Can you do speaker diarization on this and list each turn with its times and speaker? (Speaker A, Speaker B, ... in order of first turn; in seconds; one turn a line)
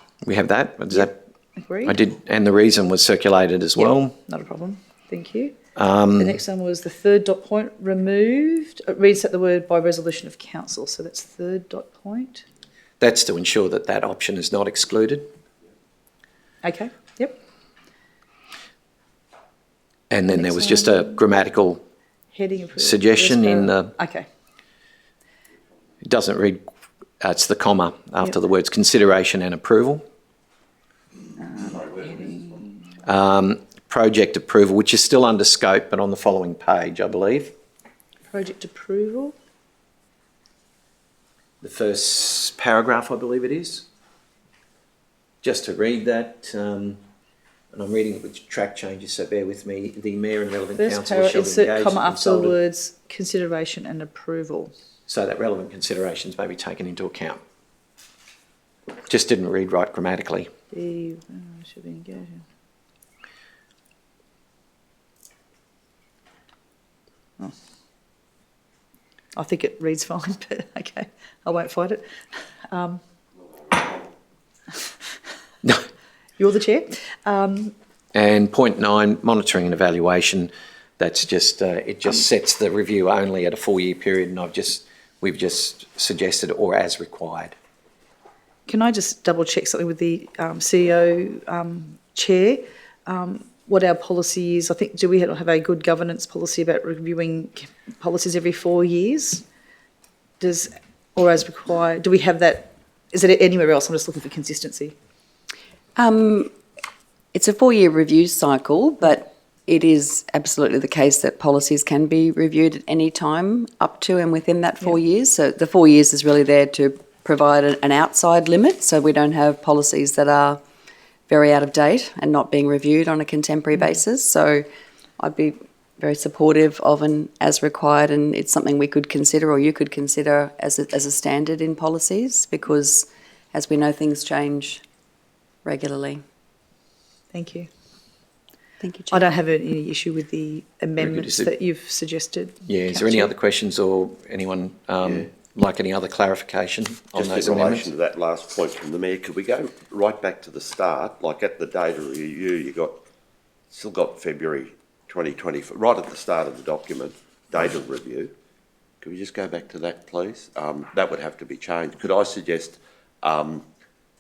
Speaker A: 0.2-1.2
Speaker B: 1.6-2.0
Speaker A: 1.8-4.2
Speaker B: 3.8-5.6
Speaker A: 5.8-6.4
Speaker B: 6.2-12.4
Speaker A: 13.0-15.3
Speaker B: 16.6-17.4
Speaker A: 20.1-21.8
Speaker B: 20.3-21.2
Speaker B: 22.3-24.3
Speaker A: 22.8-23.9
Speaker A: 26.0-26.6
Speaker A: 27.2-30.0
Speaker B: 31.4-32.6
Speaker A: 33.0-37.5
Speaker B: 38.3-39.4
Speaker A: 41.6-43.9
Speaker A: 45.4-47.0
Speaker A: 47.7-52.6
Speaker B: 50.7-54.7
Speaker A: 55.1-57.4
Speaker A: 59.1-60.5
Speaker B: 60.7-62.4
Speaker B: 69.4-72.0
Speaker B: 72.7-73.0
Speaker B: 76.4-77.7
Speaker A: 78.1-87.6
Speaker B: 88.7-99.4
Speaker B: 100.4-105.0
Speaker C: 106.0-106.5
Speaker C: 107.3-120.6
Speaker C: 121.3-124.7
Speaker C: 125.2-134.8
Speaker C: 135.7-136.2
Speaker B: 137.3-137.7
Speaker C: 138.8-139.2
Speaker B: 139.1-143.3
Speaker A: 141.0-141.5
Speaker A: 142.7-147.9
Speaker D: 145.0-145.3
Speaker D: 147.1-153.0
Speaker D: 153.7-158.3
Speaker D: 159.0-163.7